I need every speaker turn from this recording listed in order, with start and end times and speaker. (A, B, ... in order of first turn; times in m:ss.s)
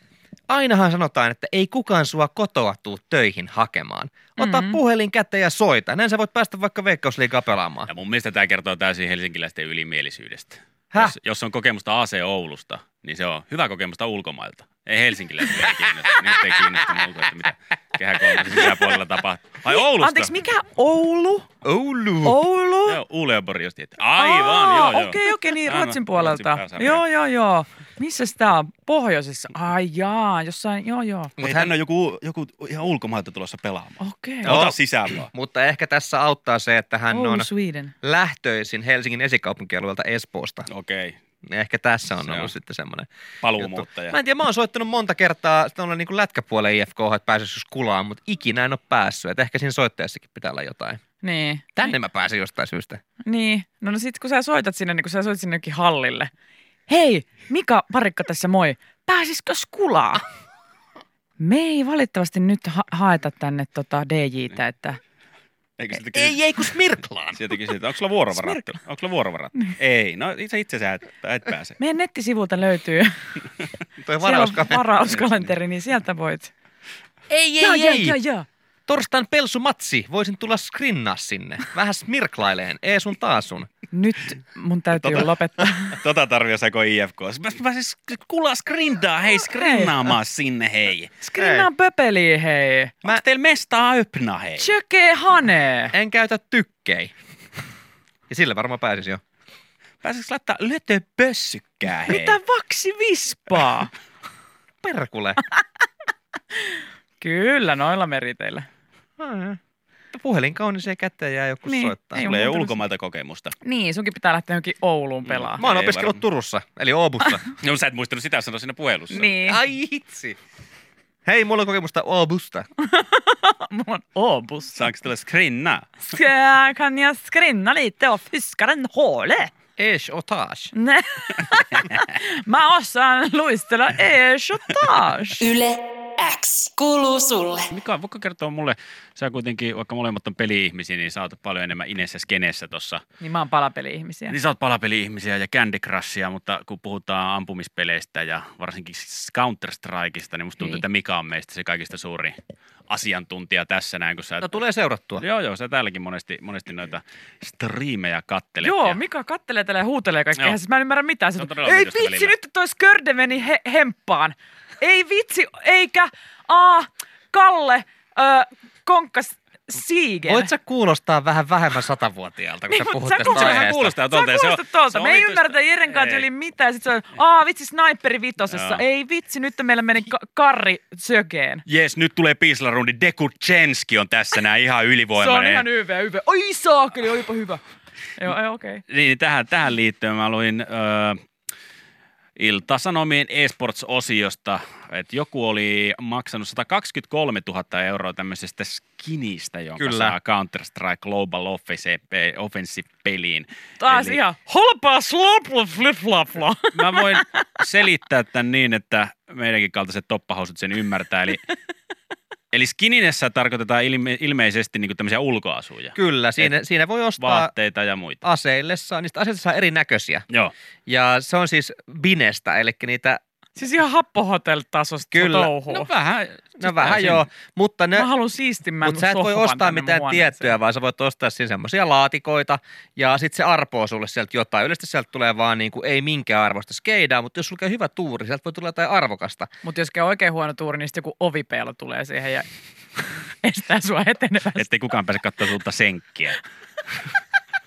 0:00.5-0:07.9 A
0:04.4-0:04.8 B
0:07.9-0:20.3 C
0:19.7-0:21.5 B
0:21.6-0:22.4 A
0:22.2-0:23.0 B
0:22.9-0:27.0 C
0:24.2-0:31.3 B
0:31.4-0:31.7 A
0:31.4-0:35.3 C
0:34.0-0:34.5 B
0:34.4-0:34.8 A
0:35.3-0:37.5 A
0:37.1-0:37.9 B
0:38.0-0:40.7 A
0:40.7-0:41.2 C
0:41.4-0:51.0 A
0:42.3-0:42.5 C
0:43.4-0:44.2 C
0:51.2-0:51.9 B
0:51.8-0:53.0 A
0:53.2-0:56.3 B
0:56.9-1:00.2 B
1:01.4-1:05.0 B
1:05.8-1:06.4 C
1:06.1-1:07.6 A
1:07.3-1:11.8 C
1:08.3-1:08.7 B
1:11.8-1:13.3 B
1:14.0-1:14.9 A
1:14.2-1:16.5 B
1:17.3-1:18.2 A
1:17.6-1:18.4 B
1:18.9-1:23.7 A
1:23.9-1:26.0 B
1:24.9-1:25.3 C
1:25.9-1:31.2 C
1:29.6-1:30.0 B
1:31.2-1:32.9 B
1:31.4-1:31.7 A
1:33.0-1:34.7 C
1:34.6-1:35.9 B
1:35.9-1:37.1 A
1:38.3-1:39.2 A
1:40.0-1:42.4 C
1:42.0-1:43.9 B
1:44.8-1:45.4 A
1:46.5-1:48.7 B
1:49.2-1:49.6 A
1:50.1-1:52.3 A
1:51.6-1:52.8 B
1:52.1-1:53.6 C
1:53.6-1:55.6 B
1:55.3-1:56.2 C
1:55.6-1:57.4 A
1:57.6-1:59.3 C
1:59.1-1:59.6 B
1:59.2-2:00.4 A
2:01.3-2:02.7 A
2:02.8-2:04.9 B
2:04.8-2:05.9 C
2:06.1-2:09.5 B
2:09.8-2:10.7 A
2:10.7-2:15.4 B
2:15.4-2:17.7 D
2:17.7-2:23.0 C
2:23.2-2:24.4 B
2:24.3-2:32.4 C
2:32.9-2:34.5 C
2:34.4-2:35.2 A
2:35.2-2:39.0 C
2:38.6-2:50.5 B
2:41.4-2:42.3 C
2:50.3-2:53.9 A
2:52.7-3:01.6 B
2:53.2-2:56.3 C
2:58.5-2:58.8 C
3:01.7-3:05.6 C
3:05.2-3:07.6 B
3:08.2-3:08.8 B
3:08.9-3:11.2 C
3:12.4-3:24.2 C
3:19.8-3:20.2 A
3:23.8-3:27.4 B
3:26.7-3:31.4 C
3:32.5-3:36.5 C
3:36.0-3:37.5 A
3:37.2-3:38.2 C
3:38.2-3:40.3 A
3:40.9-3:43.2 A
3:43.6-3:45.9 B
3:45.1-3:45.5 A
3:45.7-3:47.3 C
3:46.6-3:48.1 A
3:47.9-3:50.6 B
3:48.8-3:59.5 A
3:59.6-4:04.7 B
4:04.6-4:06.4 C